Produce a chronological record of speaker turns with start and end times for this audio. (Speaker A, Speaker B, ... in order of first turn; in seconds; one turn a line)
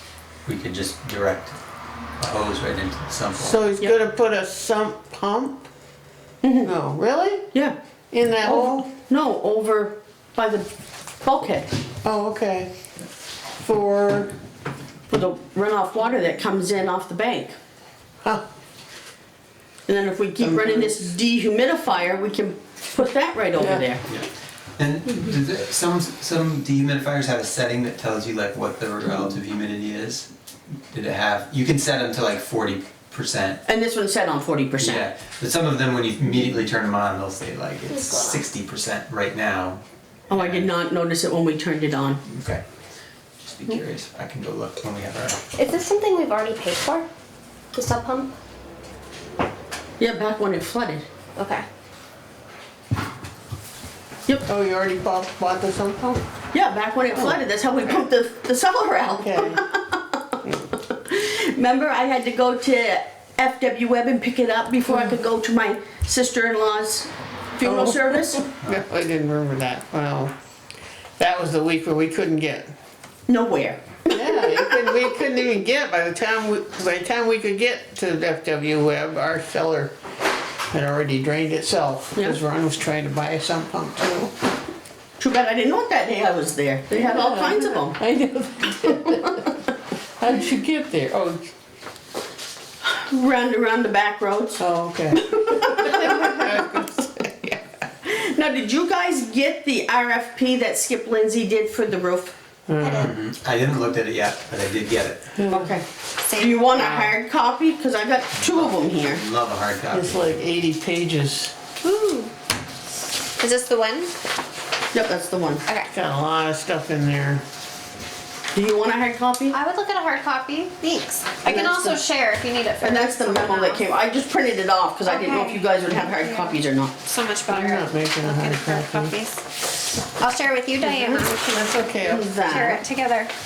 Speaker A: 0.5-1.6
Speaker A: 2.2-3.6
Speaker B: 3.4-5.7
Speaker C: 6.4-6.7
Speaker B: 6.6-7.5
Speaker B: 8.1-8.9
Speaker C: 8.4-10.7
Speaker C: 11.2-11.7
Speaker B: 12.0-12.7
Speaker B: 13.5-14.3
Speaker C: 15.1-17.6
Speaker C: 19.9-24.0
Speaker B: 20.4-21.0
Speaker A: 24.1-30.3
Speaker A: 30.9-33.6
Speaker C: 33.7-35.1
Speaker A: 34.8-40.7
Speaker D: 37.9-38.4
Speaker C: 40.3-42.2
Speaker A: 42.2-42.6
Speaker A: 43.4-45.5
Speaker D: 45.5-47.1
Speaker D: 47.7-48.3
Speaker C: 50.0-51.0
Speaker D: 51.4-51.6
Speaker B: 54.5-56.2
Speaker C: 56.5-60.2
Speaker B: 57.1-57.4
Speaker B: 59.2-59.6
Speaker C: 60.8-68.4
Speaker B: 64.9-65.2
Speaker B: 67.6-70.3
Speaker B: 71.2-72.7
Speaker C: 73.3-74.9
Speaker B: 74.1-79.9
Speaker B: 80.7-84.3
Speaker C: 85.2-88.0
Speaker B: 86.9-89.6
Speaker C: 88.9-89.4
Speaker B: 90.2-91.4
Speaker C: 92.8-96.7
Speaker B: 94.6-97.7
Speaker C: 98.0-102.3
Speaker B: 102.7-103.1
Speaker D: 102.8-103.1
Speaker A: 102.9-105.3
Speaker B: 105.3-105.8
Speaker C: 105.5-109.2
Speaker D: 106.2-107.2
Speaker A: 108.3-110.3
Speaker B: 109.9-111.5
Speaker D: 111.8-112.3
Speaker D: 113.4-114.1
Speaker C: 114.9-115.6
Speaker B: 115.9-117.4
Speaker C: 118.5-119.6
Speaker D: 119.5-123.8
Speaker C: 121.4-122.0
Speaker C: 122.8-127.0
Speaker D: 125.0-133.3
Speaker B: 127.5-129.2
Speaker B: 130.8-132.7
Speaker C: 132.0-132.8